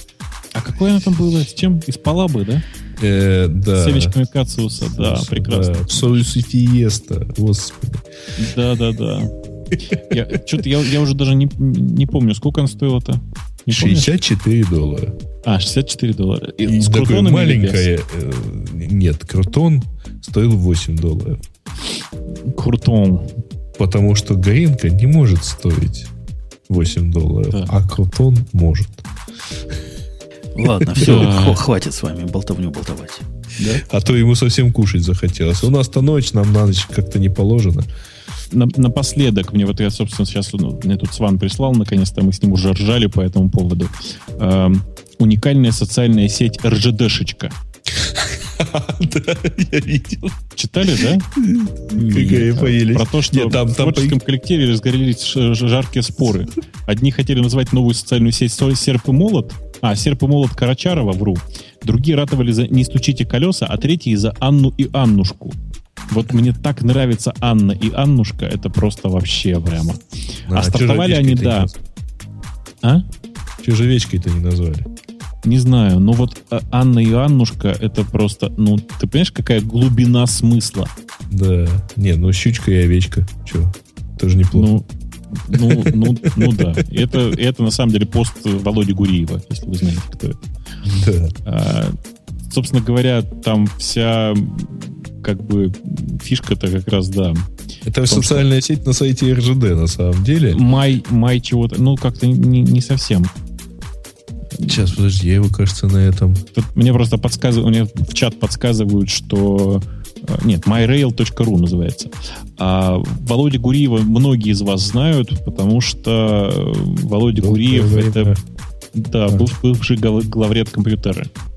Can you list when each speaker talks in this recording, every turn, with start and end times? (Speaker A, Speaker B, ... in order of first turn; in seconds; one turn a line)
Speaker A: 0.5-2.6
Speaker B: 3.0-4.1
Speaker A: 3.8-6.2
Speaker B: 4.8-8.0
Speaker A: 8.4-9.3
Speaker A: 10.0-14.2
Speaker B: 13.7-15.2
Speaker A: 15.4-17.9
Speaker B: 16.6-21.4
Speaker A: 22.5-23.4
Speaker B: 23.8-26.1
Speaker B: 26.7-29.0
Speaker C: 30.5-33.8
Speaker A: 30.9-31.6
Speaker B: 33.8-37.9
Speaker A: 38.5-47.5
Speaker B: 47.9-50.4
Speaker A: 50.5-51.2
Speaker B: 51.4-54.2
Speaker C: 52.0-52.5
Speaker A: 52.0-65.5
Speaker A: 66.1-71.7
Speaker B: 70.5-71.7
Speaker B: 73.6-74.9
Speaker A: 75.4-80.9
Speaker B: 81.3-84.7
Speaker A: 84.5-90.5
Speaker B: 85.5-86.8
Speaker B: 90.8-91.3
Speaker A: 91.4-92.0
Speaker A: 92.5-97.5
Speaker B: 97.8-100.6
Speaker A: 98.1-98.4
Speaker A: 100.5-103.3
Speaker A: 104.6-104.9
Speaker B: 104.6-106.4
Speaker A: 106.5-118.3
Speaker B: 117.3-118.4
Speaker A: 118.9-121.3